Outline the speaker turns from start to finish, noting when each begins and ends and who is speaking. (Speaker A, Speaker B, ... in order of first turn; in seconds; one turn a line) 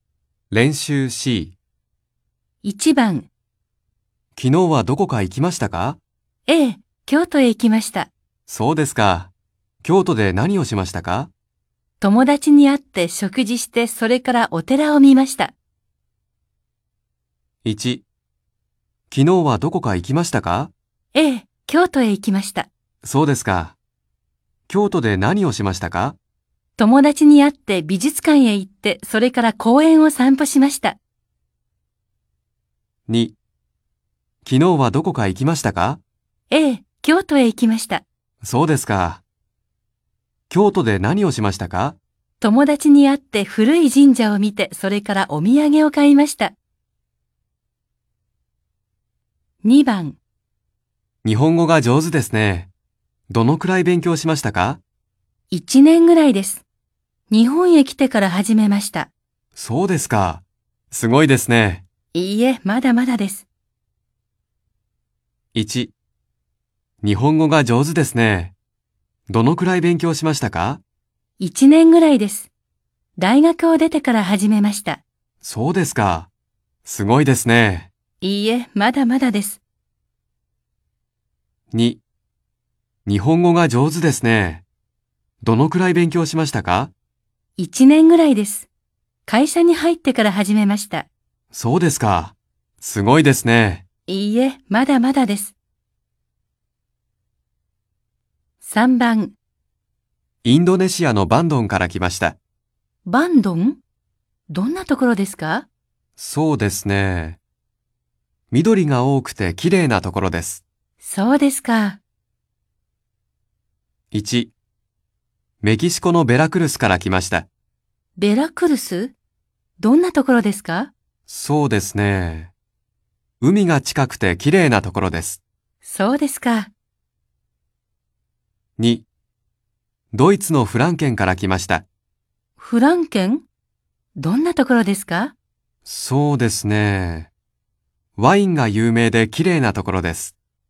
Speaker A: 0.5-1.5
Speaker B: 2.6-3.3
Speaker A: 4.4-6.0
Speaker B: 6.5-8.1
Speaker A: 8.5-9.3
Speaker A: 9.8-11.3
Speaker B: 12.0-15.5
Speaker A: 17.6-18.0
Speaker A: 19.1-20.7
Speaker B: 21.1-22.7
Speaker A: 23.0-23.8
Speaker A: 24.7-26.2
Speaker B: 26.8-31.0
Speaker A: 33.1-33.4
Speaker A: 34.5-36.0
Speaker B: 36.5-38.0
Speaker A: 38.4-39.2
Speaker A: 40.5-42.0
Speaker B: 42.4-46.5
Speaker B: 49.6-50.2
Speaker A: 51.2-52.7
Speaker A: 53.3-54.8
Speaker B: 55.5-56.6
Speaker B: 57.3-59.1
Speaker A: 59.5-61.8
Speaker B: 62.1-63.5
Speaker A: 65.5-65.9
Speaker A: 67.0-68.5
Speaker A: 69.3-70.8
Speaker B: 71.4-72.5
Speaker B: 73.2-75.0
Speaker A: 75.4-76.3
Speaker A: 76.8-77.9
Speaker B: 78.2-79.6
Speaker A: 81.7-82.0
Speaker A: 83.1-84.6
Speaker A: 85.4-86.9
Speaker B: 87.6-88.7
Speaker B: 89.3-91.1
Speaker A: 91.5-93.8
Speaker B: 94.1-95.5
Speaker B: 98.6-99.3
Speaker A: 100.4-102.4
Speaker B: 103.1-103.8
Speaker B: 104.5-105.7
Speaker A: 106.2-107.4
Speaker A: 108.5-110.6
Speaker B: 111.0-112.0
Speaker A: 114.1-114.5
Speaker A: 115.6-117.5
Speaker B: 118.2-119.2
Speaker B: 119.8-120.9
Speaker A: 121.3-122.5
Speaker A: 123.4-125.4
Speaker B: 125.8-126.7
Speaker A: 128.8-129.1
Speaker A: 130.1-131.9
Speaker B: 132.6-133.4
Speaker B: 134.2-135.3
Speaker A: 135.8-137.3
Speaker A: 138.2-140.3